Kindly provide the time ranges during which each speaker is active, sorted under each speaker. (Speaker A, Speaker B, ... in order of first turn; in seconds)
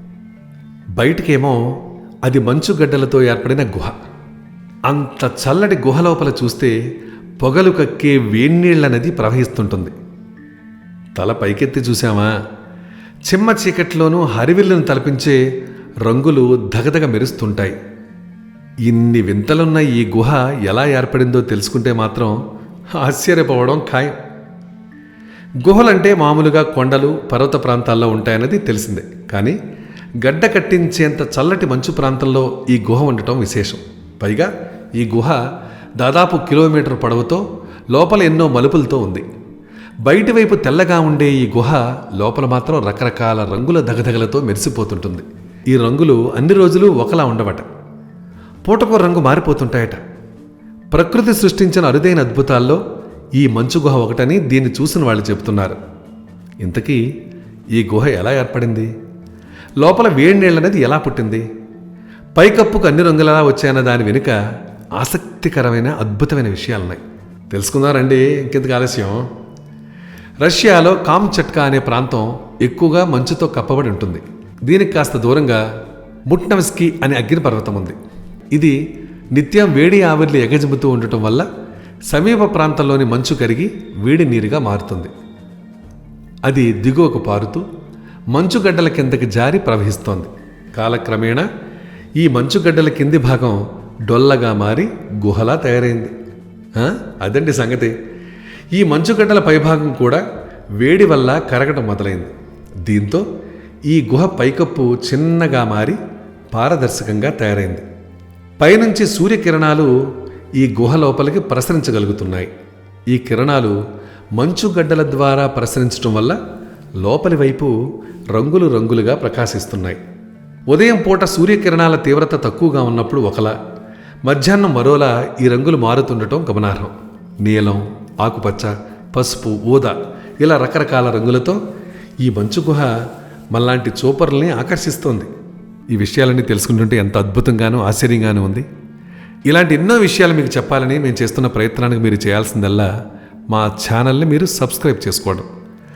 Speaker A: 1.0-1.6, 2.2-4.0, 4.9-6.7, 7.4-9.9, 11.1-12.3, 13.3-15.4, 16.0-17.8, 18.8-22.4, 23.0-24.1, 25.6-29.6, 30.2-35.4, 36.0-39.2, 40.0-47.7, 48.6-50.0, 50.9-52.8, 53.3-55.8, 56.6-57.0, 57.7-58.9, 59.8-61.4, 62.3-64.4, 65.0-69.3, 70.4-75.6, 76.3-78.0, 78.5-78.8, 79.3-81.5, 82.1-85.1, 86.4-87.6, 88.3-91.5, 92.2-96.1, 96.7-97.9, 98.7-100.2, 100.8-102.3, 102.8-103.2, 103.9-106.0, 106.5-107.8, 108.6-109.9, 110.5-112.5, 113.1-113.8, 114.3-116.4, 117.0-117.7, 118.3-120.0, 120.7-123.5, 124.2-131.6, 132.2-132.9, 133.5-135.3, 135.9-138.7, 139.5-142.9, 143.5-145.5